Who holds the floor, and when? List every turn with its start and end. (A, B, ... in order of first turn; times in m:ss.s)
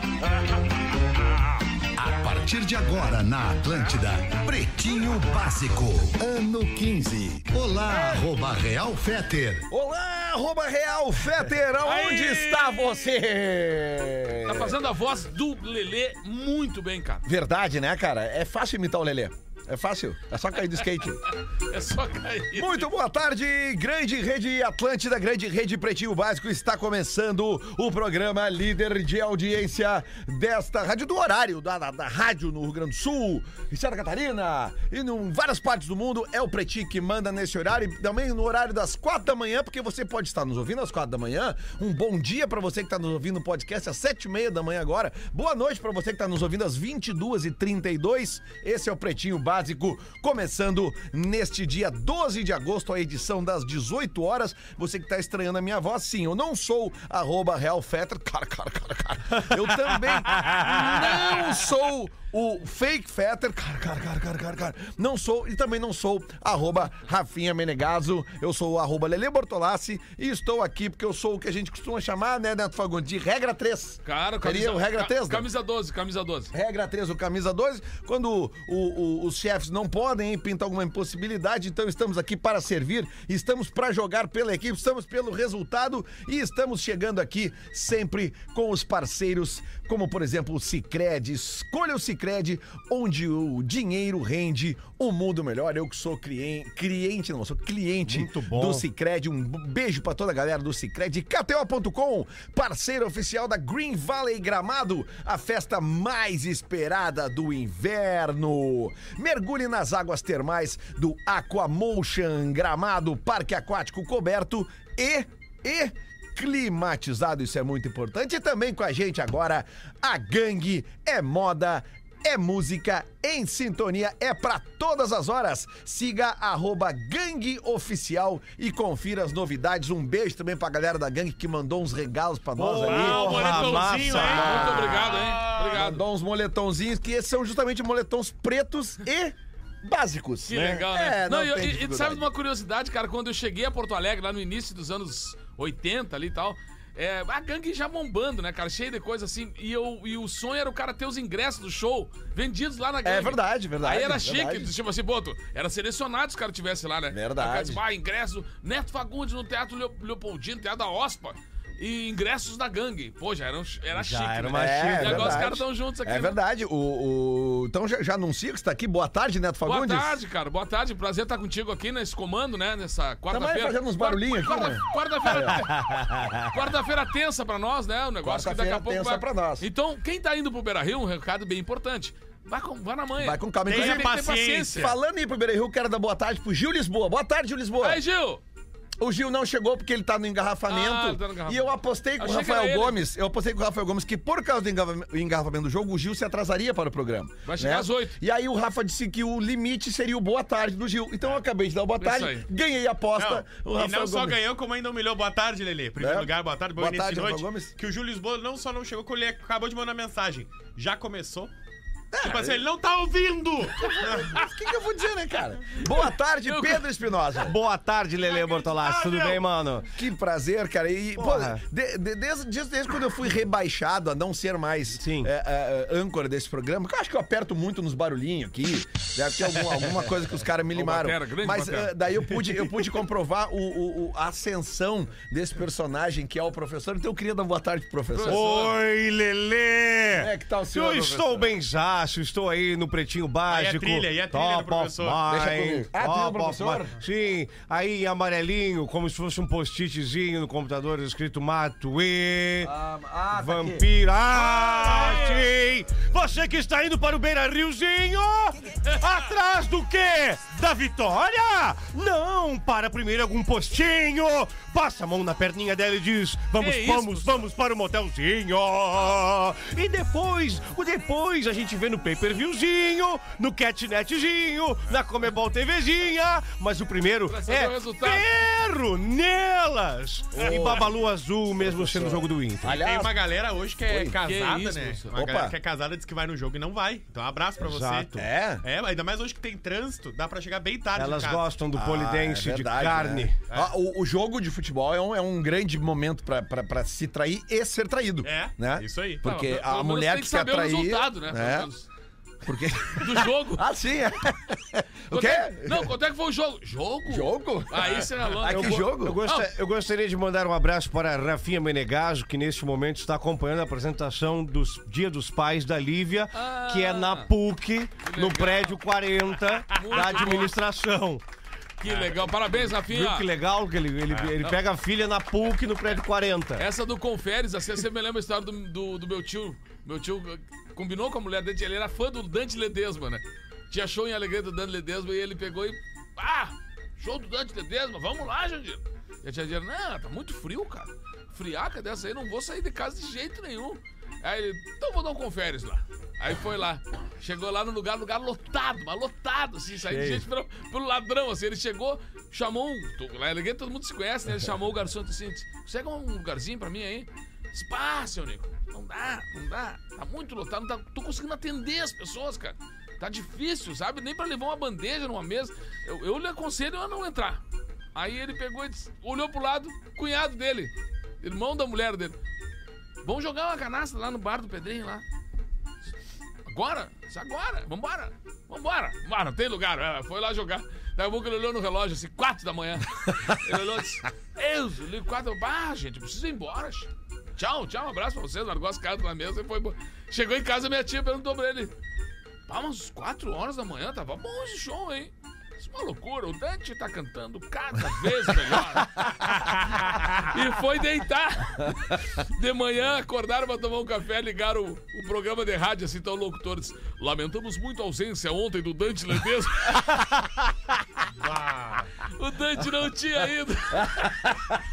0:02.0-0:09.7 A
0:07.8-0:08.2 B
0:09.7-0:14.8 B
0:11.8-0:13.1 C
0:14.4-0:17.2 C
0:17.3-0:21.2 B
0:21.7-0:22.9 C
0:22.5-1:15.5 B
1:00.6-1:01.7 C
1:14.0-1:16.5 C
1:16.5-2:13.5 B
1:38.1-1:38.9 D
2:12.6-2:14.6 D
2:12.8-2:16.0 C
2:13.0-2:15.8 E
2:14.1-2:22.3 B
2:20.5-2:46.4 C
2:33.0-2:34.7 B
2:37.1-2:37.8 B
2:43.9-2:45.5 D
2:44.5-2:50.2 B
2:49.7-3:04.9 C
2:53.3-2:55.6 B
2:58.2-2:59.7 B
3:03.2-3:08.0 B
3:03.7-3:04.9 E
3:07.8-3:08.4 C
3:09.0-3:24.4 B
3:10.7-3:13.0 C
3:17.4-3:18.2 C
3:22.0-3:22.4 C
3:23.2-3:31.5 E
3:26.0-3:27.8 B
3:32.1-3:32.7 B
3:32.2-3:34.4 E
3:33.9-3:37.6 B
3:36.4-3:36.9 C
3:37.4-3:39.9 D
3:39.0-3:39.3 C
3:39.9-3:58.4 B
3:41.2-3:41.6 D
3:45.0-3:45.3 D
3:50.7-3:52.0 C
3:58.1-3:58.8 C
3:58.3-4:12.7 D
4:00.1-4:01.6 B
4:03.5-4:05.3 E
4:05.3-4:07.0 B
4:12.6-4:13.9 B
4:13.3-4:42.8 D
4:14.5-4:15.2 C
4:14.7-4:15.3 B
4:26.6-4:27.4 C
4:37.3-4:38.3 C
4:40.4-4:40.9 B
4:41.6-4:43.2 B
4:42.7-4:48.1 E
4:43.8-4:44.2 B
4:44.2-4:45.1 C
4:45.1-4:45.5 B
4:47.6-4:48.3 D
4:48.2-4:48.6 B
4:48.6-4:51.5 E
4:51.0-4:53.4 D
4:51.7-5:01.7 B
4:58.2-4:59.2 E
4:59.2-5:01.9 C
5:02.4-5:05.9 B
5:02.9-5:03.7 C
5:05.1-5:09.5 C
5:07.1-5:09.2 B
5:08.4-5:21.2 D
5:16.3-5:17.3 C
5:18.0-5:18.8 C
5:19.7-5:20.5 E
5:19.7-5:20.5 C
5:21.8-5:23.3 C
5:21.9-5:22.2 E
5:22.7-5:26.7 D
5:24.1-5:24.6 C
5:26.6-6:07.4 C
5:49.9-5:50.2 D
6:08.0-6:12.2 C
6:13.0-6:15.0 C
6:16.5-6:31.7 C
6:32.5-6:50.4 C
6:51.1-6:51.9 E
6:52.0-6:54.4 C